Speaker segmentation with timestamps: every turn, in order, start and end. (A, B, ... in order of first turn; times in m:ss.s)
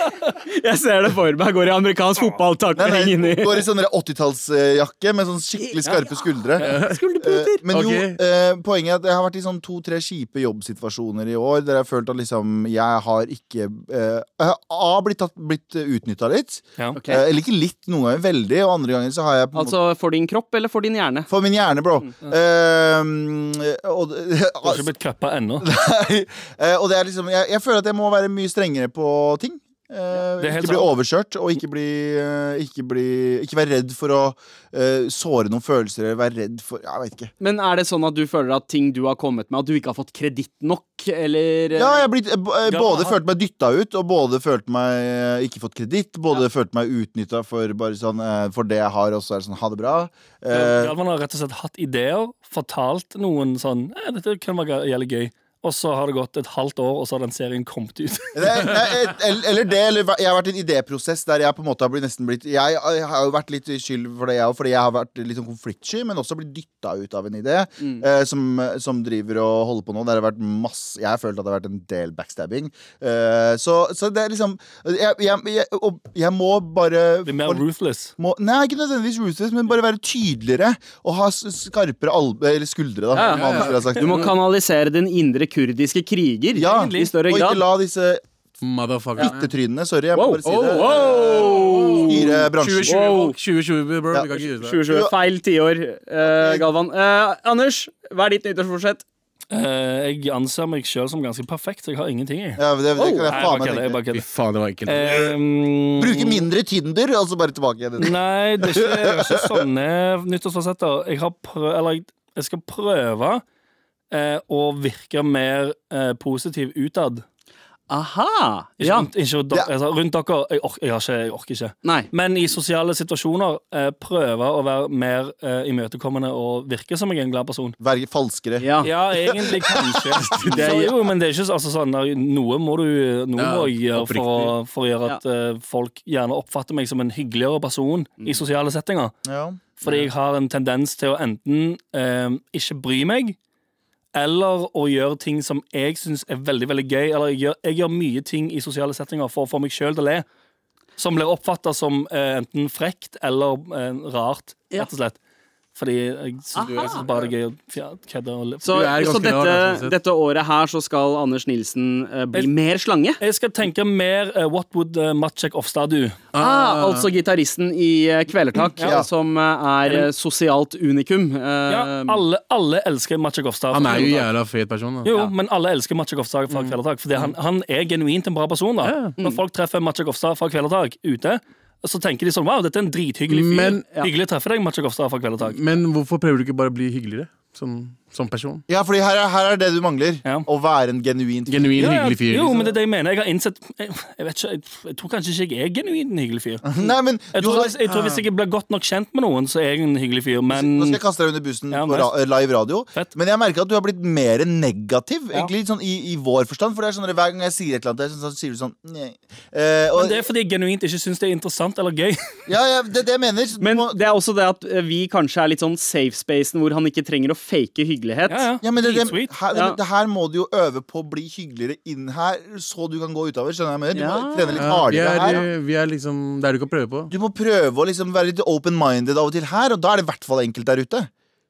0:00.4-0:03.7 A
0:02.8-0:19.8 B
0:05.6-0:07.6 A
0:06.6-0:07.0 C
0:07.7-0:08.2 C
0:17.0-0:17.3 A
0:19.5-0:21.3 A
0:21.3-0:24.9 B
0:24.6-0:25.7 D
0:25.6-0:37.3 B
0:30.4-0:30.9 D
0:37.4-0:42.0 A
0:41.8-0:51.0 B
0:42.7-0:43.2 D
0:50.5-0:58.9 D
0:58.3-1:17.6 B
1:17.2-1:18.1 D
1:18.2-1:24.3 B
1:23.1-1:27.6 A
1:23.2-1:24.3 C
1:26.6-1:28.2 B
1:26.6-1:27.1 D
1:28.6-1:29.5 C
1:29.2-1:33.0 B
1:30.2-1:32.4 A
1:30.4-1:34.8 C
1:32.9-1:33.4 A
1:34.1-1:35.1 B
1:34.6-1:39.0 A
1:36.2-1:36.7 B
1:39.5-1:42.6 D
1:42.6-1:44.0 B
1:43.0-1:43.3 A
1:43.3-1:44.2 D
1:44.1-1:45.3 C
1:44.9-1:46.4 D
1:46.0-1:49.6 B
1:48.0-1:53.4 D
1:54.1-1:57.2 D
1:57.9-1:59.1 A
1:58.8-2:07.8 D
2:01.8-2:02.1 A
2:07.8-2:10.2 B
2:08.6-2:08.9 A
2:08.8-2:19.1 D
2:10.2-2:10.8 C
2:10.5-2:10.9 A
2:13.4-2:14.6 C
2:19.2-2:19.6 B
2:19.8-2:23.4 D
2:24.1-2:30.2 D
2:31.0-2:35.2 D
2:35.8-2:38.7 D
2:36.6-2:37.0 A
2:36.6-2:37.3 C
2:38.6-2:43.2 A
2:38.7-2:40.0 C
2:43.2-2:46.2 D
2:46.3-2:47.1 C
2:46.4-2:52.2 A
2:48.8-2:49.0 D
2:51.7-2:54.3 D
2:53.7-2:55.1 C
2:55.0-3:05.6 D
2:56.5-2:57.3 C
2:58.8-2:59.2 C
3:03.3-3:03.9 C
3:05.4-3:08.6 C
3:08.7-3:12.0 B
3:11.5-3:12.7 C
3:11.8-3:21.0 D
3:16.6-3:18.2 B
3:20.5-3:30.3 B
3:21.7-3:22.1 D
3:30.0-3:32.2 D
3:32.5-3:34.0 B
3:33.6-3:38.5 A
3:38.3-3:39.3 D
3:38.6-3:45.5 B
3:43.9-3:44.7 A
3:44.6-3:47.1 C
3:47.1-3:51.1 B